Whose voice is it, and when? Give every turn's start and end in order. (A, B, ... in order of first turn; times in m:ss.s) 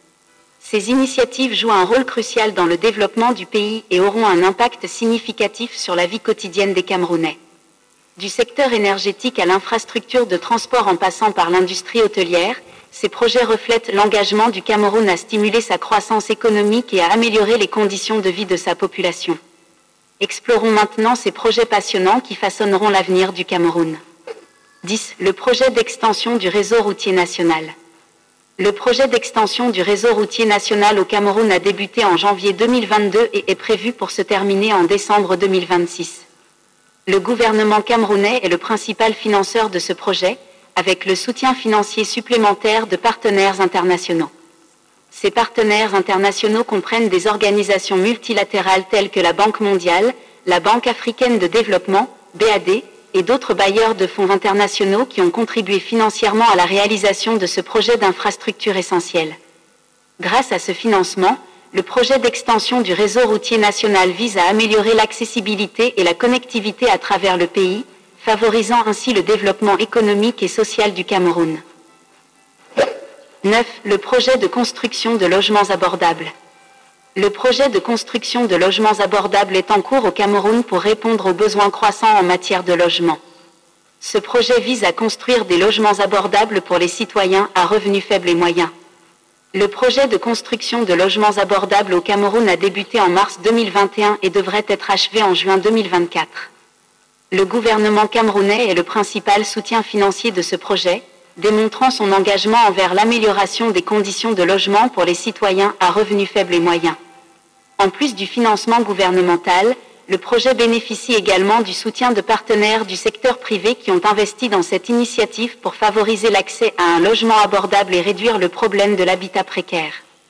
0:00.6-0:07.4 A
0:08.2-0:19.4 A
0:20.2-0:24.0 A
0:24.8-0:27.7 A
0:28.6-0:36.2 A
0:37.1-0:44.3 A
0:45.1-0:59.4 A
1:00.2-1:11.6 A
1:13.4-1:16.3 A
1:17.2-1:23.2 A
1:24.0-1:28.7 A
1:29.5-1:36.5 A
1:37.3-1:47.0 A
1:47.8-2:00.0 A